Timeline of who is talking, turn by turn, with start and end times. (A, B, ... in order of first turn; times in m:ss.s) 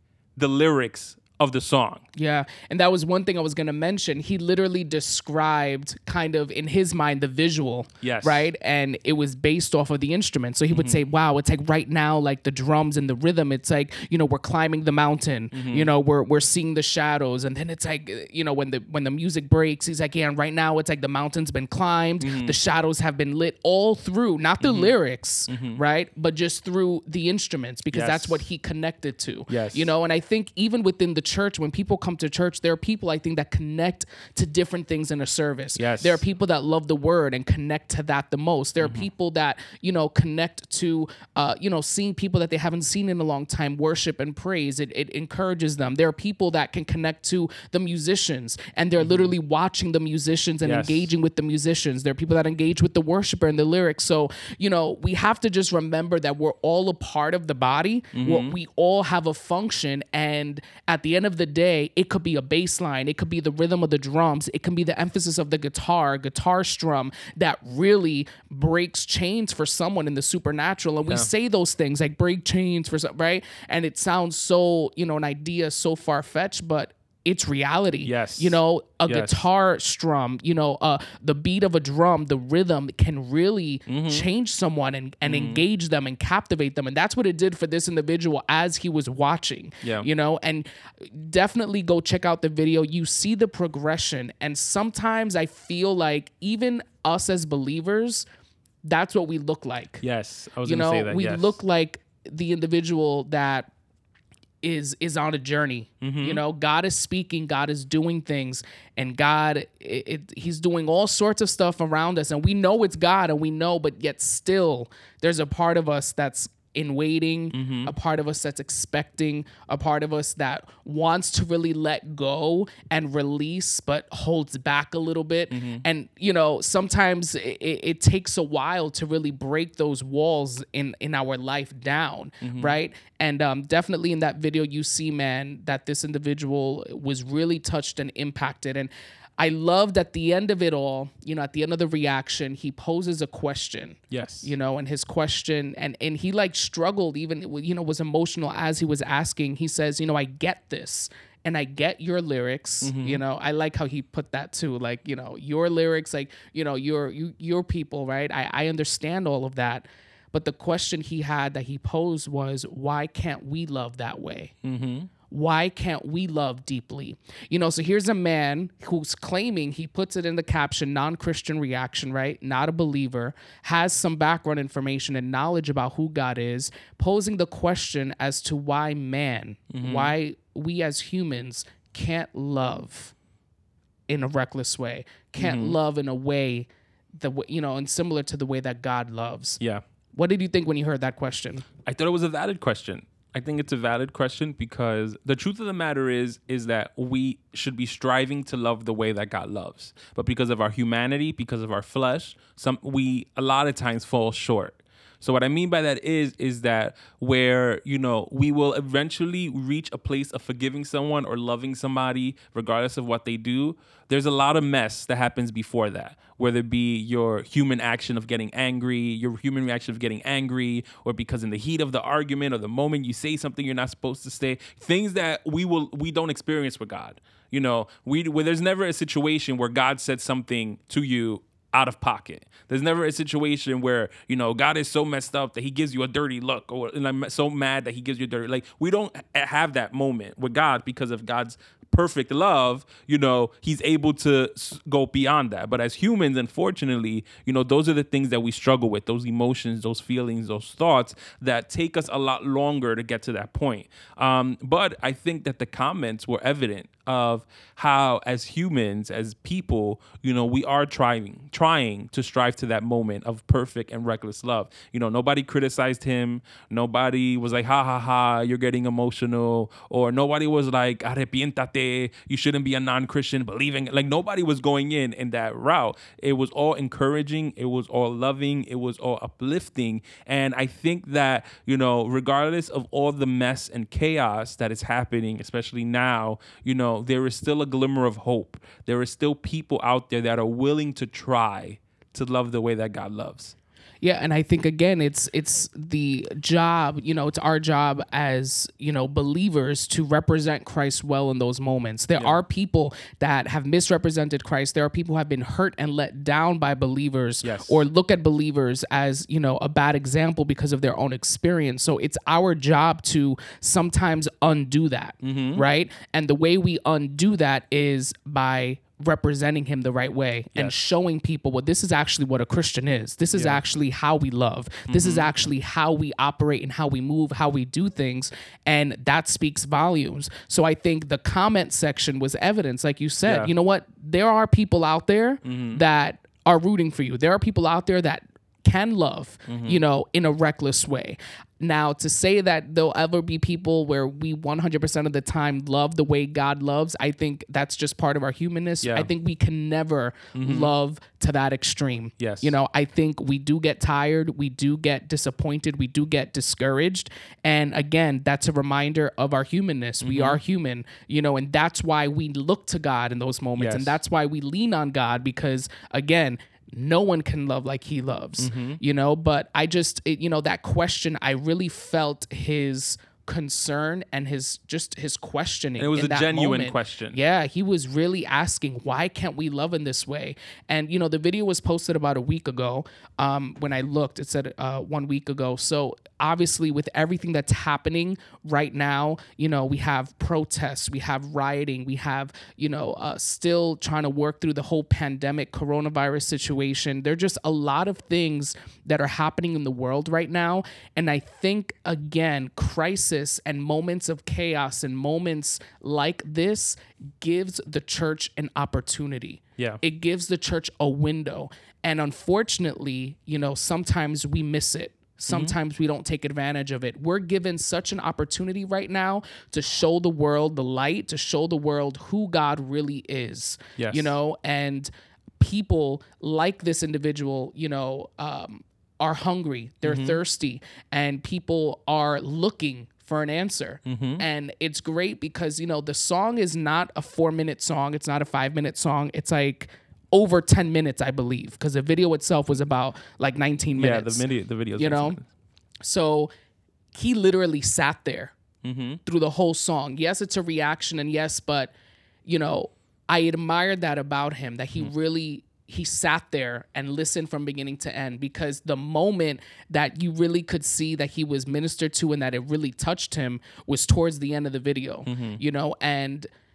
0:00.4-0:02.0 A
0:02.1-1:38.3 B
0:08.0-0:08.5 A
0:10.7-0:11.0 A
0:15.5-0:15.9 A
0:22.2-0:22.6 A
0:24.6-0:24.9 A
0:25.5-0:25.8 A
0:27.9-0:28.4 A
0:29.5-0:29.9 A
0:35.8-0:36.2 A
0:38.8-0:39.0 A
0:49.0-0:49.3 A
0:50.6-0:51.1 A
0:58.1-0:58.6 A
1:18.0-1:19.4 A
1:23.9-1:24.3 A
1:25.2-1:25.6 A
1:29.8-1:30.1 A
1:38.8-1:40.0 B
1:40.0-1:41.6 A
1:40.6-1:43.7 B
1:44.6-2:44.5 B
1:46.0-1:46.4 A
1:57.5-1:57.9 A
2:05.5-2:05.8 A
2:12.4-2:12.7 A
2:24.1-2:24.5 A
2:32.8-2:33.2 A
2:44.6-2:45.1 A
2:45.3-3:03.1 B
2:59.7-3:00.1 A
3:04.1-3:09.6 B
3:05.4-3:05.8 A
3:10.1-3:11.6 B
3:11.8-4:53.5 A
4:54.0-7:25.2 B
5:07.4-5:07.8 A
5:15.2-5:15.6 A
5:23.3-5:23.6 A
5:24.9-5:25.3 A
5:33.2-5:33.5 A
5:35.4-5:35.8 A
5:39.5-5:39.8 A
5:48.8-5:49.1 A
5:50.3-5:50.7 A
5:52.2-5:52.5 A
6:00.0-6:00.4 A
6:03.6-6:04.0 A
6:08.4-6:08.8 A
6:15.8-6:17.2 A
6:55.3-6:55.5 A
7:03.8-7:04.1 A
7:09.8-7:10.2 A
7:13.8-7:14.2 A
7:23.8-7:25.2 A
7:25.8-7:26.3 B
7:26.9-7:28.3 B
7:28.6-7:29.0 A
7:29.0-7:31.7 B
7:32.2-7:46.3 B
7:45.1-7:45.4 A